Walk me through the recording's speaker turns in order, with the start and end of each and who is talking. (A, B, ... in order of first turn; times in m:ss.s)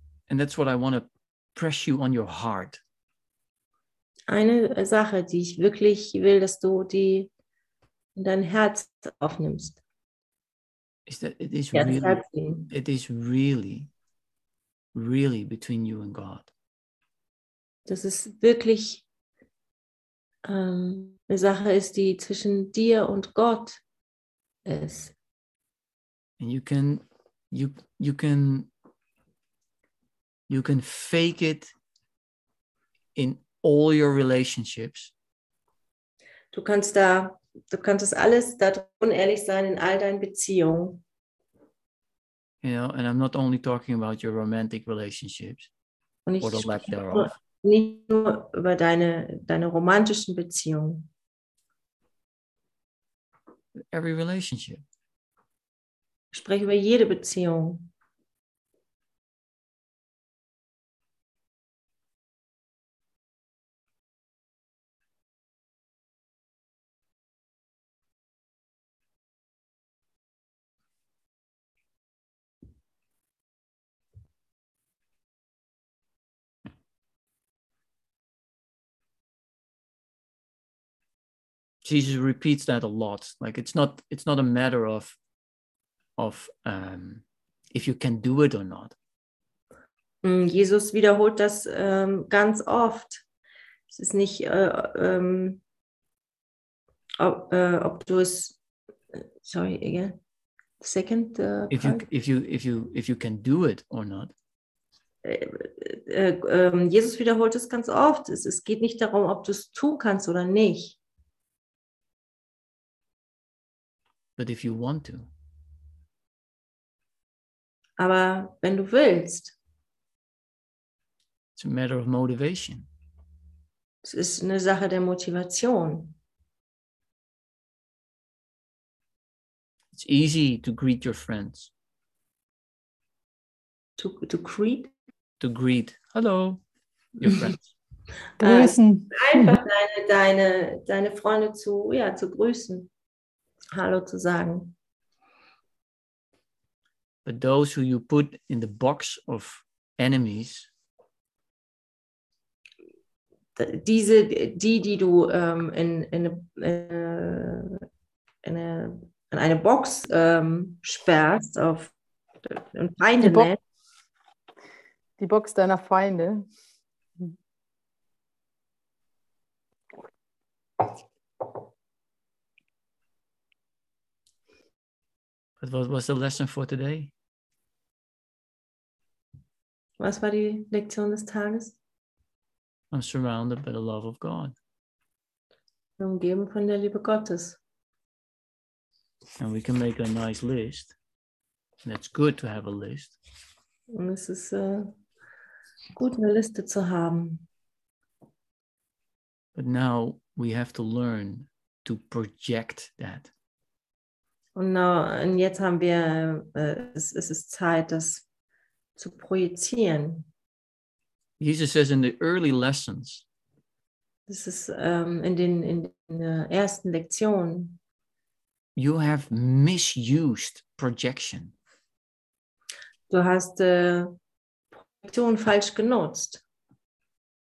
0:00.3-0:02.8 A
0:04.3-0:07.3 B
0:08.2-0:09.8 B
0:11.1-0:13.9 A
0:11.7-0:12.7 B
0:14.9-0:16.5 A
0:17.9-0:19.0 B
0:20.4-0:23.8 B
0:24.6-0:25.1 B
0:26.4-0:28.7 A
0:30.5-0:31.7 A
0:33.2-0:35.1 A
0:36.5-0:41.0 B
0:42.6-0:45.7 A
0:46.3-0:51.1 B
0:46.4-0:47.3 A
0:53.9-0:54.8 A
0:56.3-0:57.9 B
1:21.8-1:25.2 A
1:26.2-1:29.0 A
1:30.2-1:33.2 B
1:33.9-1:35.6 B
1:37.2-1:38.6 B
1:39.1-1:40.2 B
1:40.8-1:42.0 B
1:41.7-1:44.3 A
1:45.2-1:51.0 B
1:54.4-1:55.3 A
1:58.0-1:59.6 B
2:01.6-2:02.9 A
2:04.0-2:06.2 B
2:09.9-2:11.7 A
2:14.0-2:14.9 B
2:15.4-2:16.6 A
2:17.2-2:17.7 A
2:18.4-2:22.9 B
2:18.4-2:19.5 C
2:23.7-2:24.7 B
2:27.2-2:30.7 A
2:33.6-2:37.8 B
2:38.4-2:41.9 B
2:42.4-2:43.6 B
2:43.2-2:43.5 C
2:45.2-2:46.5 C
2:55.6-2:57.1 A
3:00.0-3:01.8 B
3:02.9-3:04.6 A
3:06.0-3:07.6 B
3:09.4-3:11.0 A
3:11.8-3:13.2 A
3:13.9-3:15.0 B
3:16.0-3:17.5 B
3:19.6-3:23.3 A
3:24.6-3:28.2 B
3:29.0-3:30.3 B
3:31.4-3:33.2 A
3:34.3-3:37.8 B
3:38.8-3:41.5 A
3:43.1-3:44.2 B
3:44.9-3:46.4 B